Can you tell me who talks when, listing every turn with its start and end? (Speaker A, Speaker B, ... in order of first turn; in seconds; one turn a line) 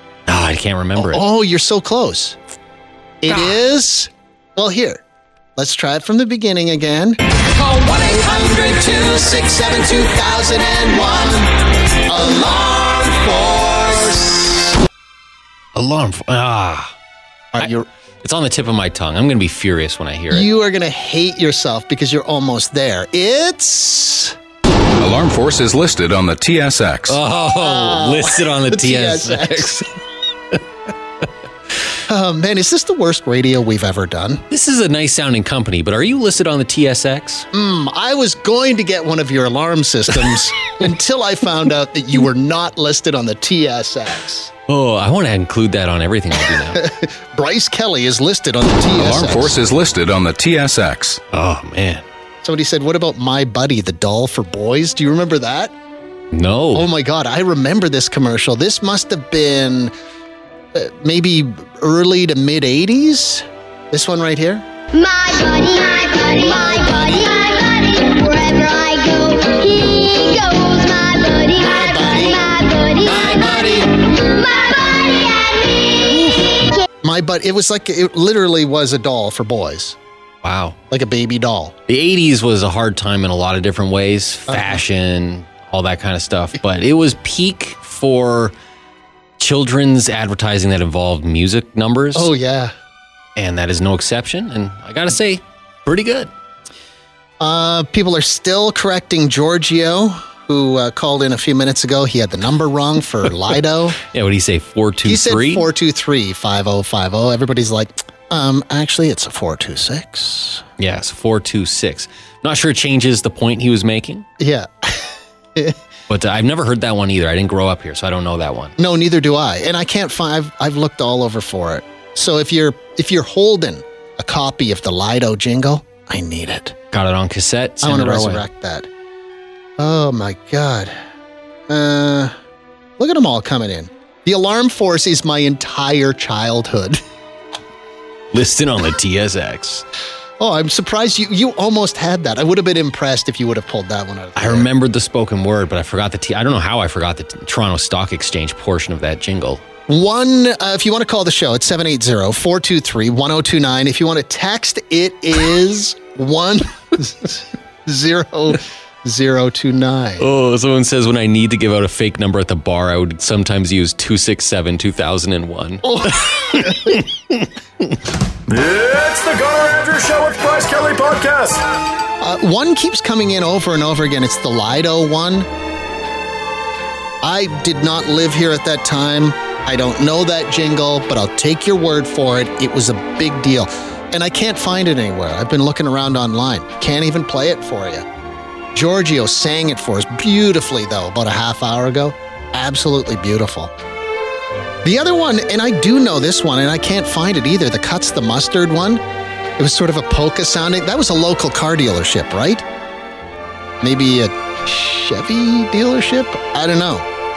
Speaker A: 0.3-1.2
Speaker B: 0.9-2.4
Speaker B: 3.2-5.0
Speaker B: 5.5-14.7
Speaker A: 15.8-16.9
Speaker B: 17.5-17.9
Speaker A: 17.6-20.5
Speaker B: 20.3-24.4
Speaker C: 25.0-27.2
Speaker A: 27.1-29.9
Speaker B: 27.6-29.8
Speaker B: 32.1-34.4
Speaker A: 34.5-37.5
Speaker B: 37.5-44.5
Speaker A: 44.7-46.8
Speaker B: 46.5-49.6
Speaker C: 48.9-51.2
Speaker A: 51.3-52.0
Speaker B: 52.4-55.7
Speaker A: 56.3-56.9
Speaker B: 56.7-59.9
Speaker B: 60.7-64.7
Speaker D: 64.9-75.9
Speaker B: 66.3-67.4
Speaker B: 71.5-72.5
Speaker A: 73.0-74.0
Speaker B: 76.0-80.0
Speaker A: 80.4-80.8
Speaker B: 80.9-81.7
Speaker A: 81.9-88.5
Speaker B: 84.5-84.8
Speaker A: 89.4-92.3
Speaker B: 92.1-92.7
Speaker A: 93.3-96.3
Speaker B: 97.4-104.0
Speaker A: 104.0-105.7
Speaker B: 105.0-110.6
Speaker A: 110.8-114.2
Speaker B: 114.4-115.8
Speaker A: 116.1-118.8
Speaker B: 118.8-126.8
Speaker A: 126.9-128.4
Speaker B: 127.8-128.9
Speaker B: 129.8-130.9
Speaker B: 131.7-132.3
Speaker B: 133.0-137.0
Speaker A: 138.3-139.8
Speaker B: 140.4-144.7
Speaker A: 144.3-149.6
Speaker B: 149.9-160.3
Speaker A: 160.2-167.9
Speaker B: 165.8-167.0
Speaker E: 168.5-171.6
Speaker B: 172.2-175.5
Speaker B: 177.2-188.1
Speaker B: 188.7-193.7
Speaker B: 194.8-199.0
Speaker B: 199.6-202.6
Speaker B: 203.8-207.1